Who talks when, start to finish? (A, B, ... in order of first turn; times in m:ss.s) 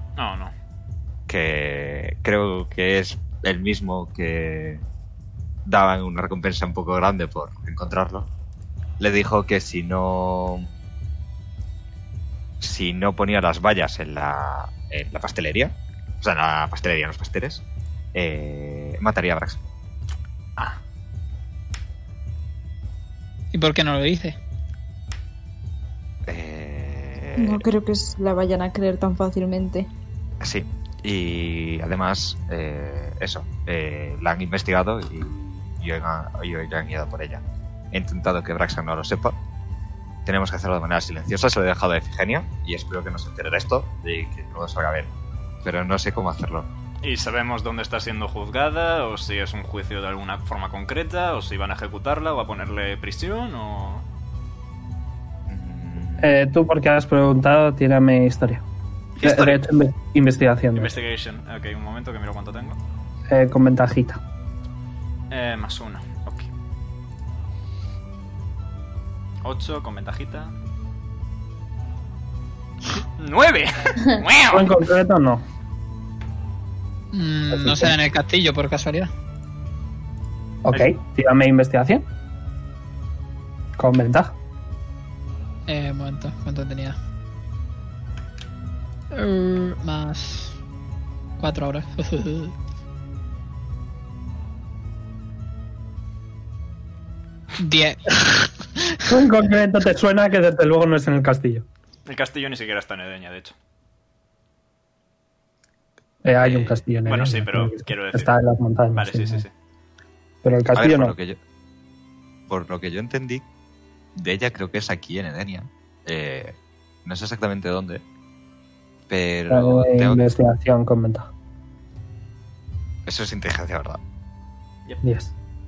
0:00.2-0:00.5 A
0:01.3-0:04.8 B
0:05.7-0:08.3 B
0:09.0-0:10.7 B
0:12.6-0:19.6 B
0:23.5-0:24.4 C
0:26.3-0:27.6 B
0:27.4-0:29.9 D
0:30.4-0:39.4 B
0:40.3-0:45.1 B
0:45.6-0:46.7 B
0:47.0-0:54.0 A
0:55.5-0:56.3 B
0:56.2-0:58.6 E
0:59.2-0:59.6 A
0:59.2-1:00.9 E
1:00.8-1:02.8 A
1:03.3-1:04.2 E
1:05.3-1:06.5 A
1:09.4-1:10.5 A
1:13.2-1:14.7 A
1:14.5-1:15.4 E
1:17.1-1:19.1 C
1:17.5-1:17.9 E
1:20.6-1:22.1 E
1:23.8-1:24.4 E
1:25.7-1:27.0 C
1:29.1-1:30.6 C
1:31.4-1:32.5 C
1:37.6-1:39.0 C
1:39.1-1:41.6 E
1:42.1-1:43.5 A
1:46.2-1:49.5 E
1:46.4-1:46.8 B
1:47.1-1:48.3 A
1:49.0-1:49.5 A
1:50.4-1:51.1 E
1:50.7-1:51.4 B
1:52.5-1:53.4 B
1:54.2-1:58.0 B
1:59.1-2:00.2 B
1:59.5-2:01.3 E
2:03.1-2:04.0 B
2:05.0-2:05.3 E